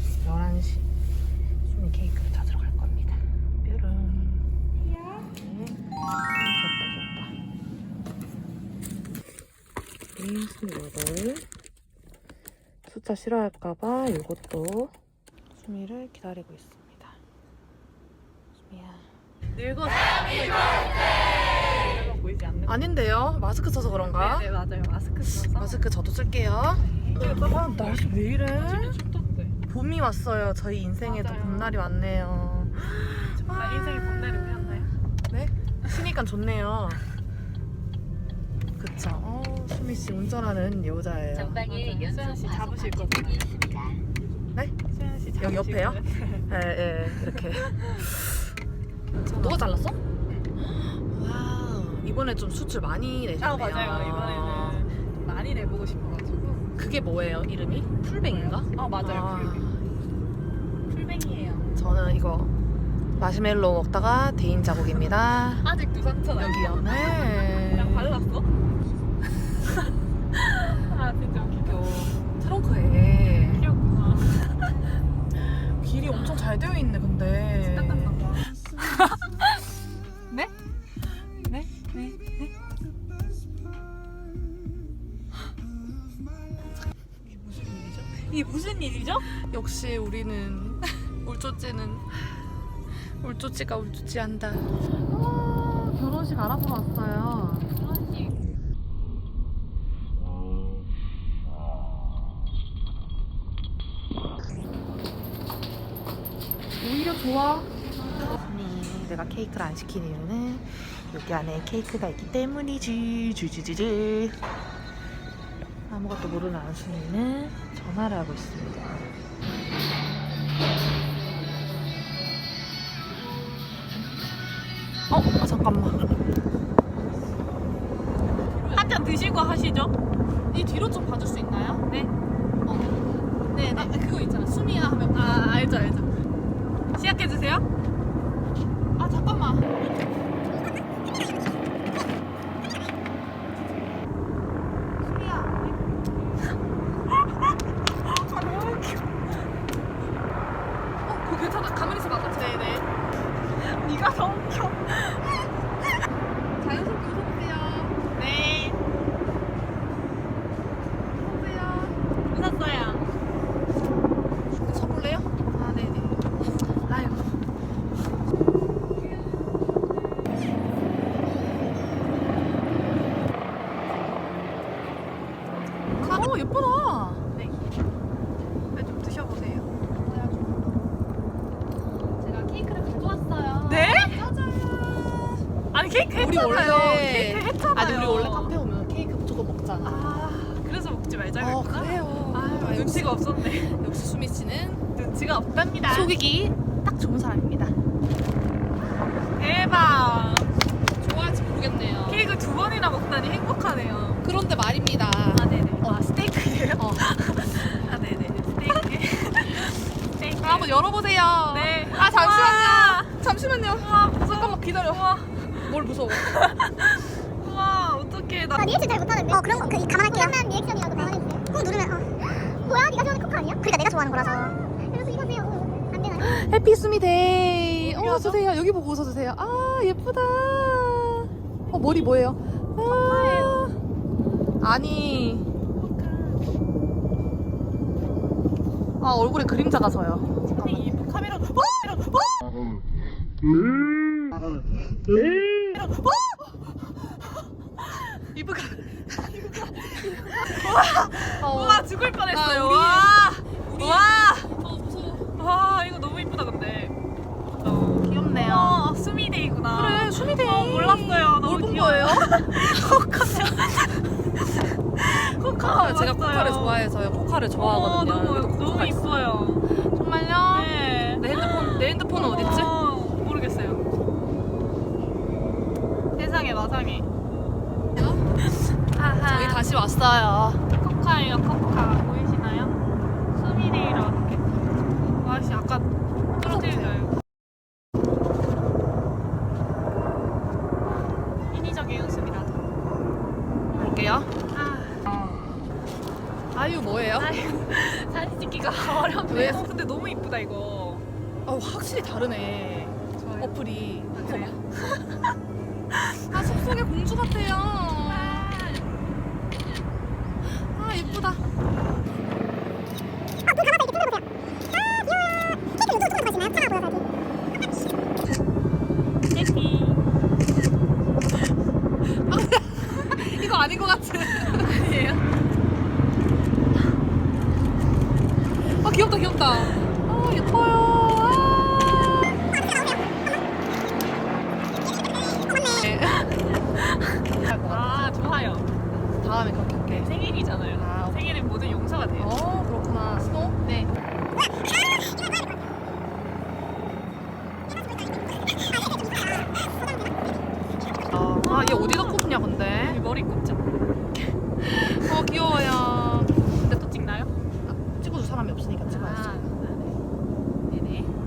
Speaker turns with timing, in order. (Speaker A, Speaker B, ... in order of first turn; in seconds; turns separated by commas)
Speaker A: 0.2-0.9, Speaker A: 1.6-4.5, Speaker A: 5.3-5.8, Speaker A: 6.3-7.3, Speaker A: 10.2-11.4, Speaker A: 12.8-14.9, Speaker A: 15.6-17.2, Speaker A: 18.7-19.0, Speaker B: 19.5-22.9, Speaker A: 22.6-24.5, Speaker B: 24.0-25.8, Speaker A: 25.3-29.0, Speaker B: 27.0-29.6, Speaker A: 29.7-37.0, Speaker B: 31.0-31.8, Speaker B: 33.2-34.9, Speaker A: 38.8-41.6, Speaker C: 41.4-44.0, Speaker B: 41.5-43.6, Speaker B: 44.9-46.5, Speaker A: 45.4-48.4, Speaker A: 49.2-50.0, Speaker B: 49.4-49.6, Speaker A: 50.6-54.9, Speaker B: 53.4-56.6, Speaker A: 56.8-59.9, Speaker B: 58.3-59.6, Speaker B: 60.9-61.7, Speaker A: 61.7-62.5, Speaker A: 63.2-65.7, Speaker B: 65.5-68.5, Speaker A: 66.3-68.1, Speaker B: 70.3-72.3, Speaker A: 72.4-73.7, Speaker B: 73.4-74.4, Speaker A: 75.7-78.3, Speaker B: 77.6-79.2, Speaker B: 81.5-82.5, Speaker B: 87.5-89.2, Speaker A: 89.3-92.1, Speaker A: 93.1-97.7, Speaker B: 97.7-98.3, Speaker A: 106.8-107.7, Speaker A: 108.2-114.4, Speaker A: 115.9-119.0, Speaker A: 125.1-126.1, Speaker A: 128.5-128.9, Speaker B: 128.7-129.9, Speaker A: 130.5-131.8, Speaker B: 131.8-132.1, Speaker A: 132.7-132.9, Speaker B: 133.5-136.1, Speaker A: 133.6-135.2, Speaker B: 136.9-137.6, Speaker A: 139.0-139.6, Speaker B: 145.2-145.7, Speaker B: 148.1-149.2, Speaker A: 151.1-152.8, Speaker B: 152.2-152.8, Speaker B: 153.5-155.4, Speaker A: 156.6-157.9, Speaker B: 158.1-158.8, Speaker A: 161.2-161.9, Speaker B: 162.3-163.1, Speaker A: 164.5-165.3, Speaker B: 165.5-166.2, Speaker B: 166.8-167.3, Speaker A: 176.0-177.2, Speaker B: 178.7-180.6, Speaker C: 182.3-182.7, Speaker B: 182.6-184.6, Speaker A: 183.7-185.1, Speaker B: 185.7-188.6, Speaker A: 186.1-190.3, Speaker B: 189.8-193.8, Speaker A: 191.4-194.8, Speaker B: 194.9-196.1, Speaker A: 195.9-197.7, Speaker B: 199.3-200.5, Speaker A: 201.0-202.3, Speaker B: 202.1-204.2, Speaker A: 204.2-206.0, Speaker B: 205.3-210.7, Speaker A: 206.8-207.1, Speaker A: 210.4-216.4, Speaker B: 211.5-215.7, Speaker B: 216.2-219.7, Speaker D: 218.6-226.3, Speaker A: 226.1-233.7, Speaker B: 227.8-228.4, Speaker B: 232.8-233.7, Speaker A: 234.6-235.4, Speaker B: 235.8-236.4, Speaker A: 239.0-240.9, Speaker B: 240.4-242.3, Speaker B: 245.5-246.6, Speaker B: 247.8-248.1, Speaker A: 248.3-250.6, Speaker B: 249.3-254.5, Speaker A: 251.1-255.3, Speaker B: 255.3-256.9, Speaker B: 257.5-266.8, Speaker A: 257.9-258.9, Speaker A: 259.7-262.8, Speaker A: 263.3-263.6, Speaker A: 265.4-269.1, Speaker B: 267.6-269.7, Speaker A: 269.7-272.7, Speaker B: 270.5-273.8, Speaker B: 276.2-277.1, Speaker A: 277.9-278.2, Speaker B: 278.6-279.6, Speaker A: 279.2-280.6, Speaker B: 280.7-282.8, Speaker B: 283.3-284.6, Speaker B: 285.2-287.1, Speaker A: 286.4-287.0, Speaker B: 291.5-292.7, Speaker A: 293.8-294.3, Speaker B: 294.5-295.4, Speaker A: 296.5-297.4, Speaker B: 297.1-301.0, Speaker A: 299.2-299.6, Speaker A: 301.4-304.6, Speaker B: 303.2-305.2, Speaker B: 306.1-306.6, Speaker A: 306.3-308.6, Speaker B: 308.0-308.9, Speaker A: 310.6-311.4, Speaker D: 313.5-314.2, Speaker D: 315.8-317.0, Speaker B: 319.3-320.0, Speaker A: 322.1-324.8, Speaker B: 324.5-325.2, Speaker A: 328.6-332.4, Speaker A: 335.5-336.3, Speaker B: 336.3-338.8, Speaker A: 337.3-338.5, Speaker A: 339.2-340.1, Speaker B: 339.8-342.3, Speaker A: 340.7-341.3, Speaker A: 342.2-343.6, Speaker B: 343.6-343.9, Speaker A: 351.0-353.0, Speaker B: 351.3-353.8, Speaker A: 354.5-356.4, Speaker B: 356.5-357.3, Speaker A: 357.6-359.5, Speaker B: 358.9-360.0, Speaker B: 360.7-361.1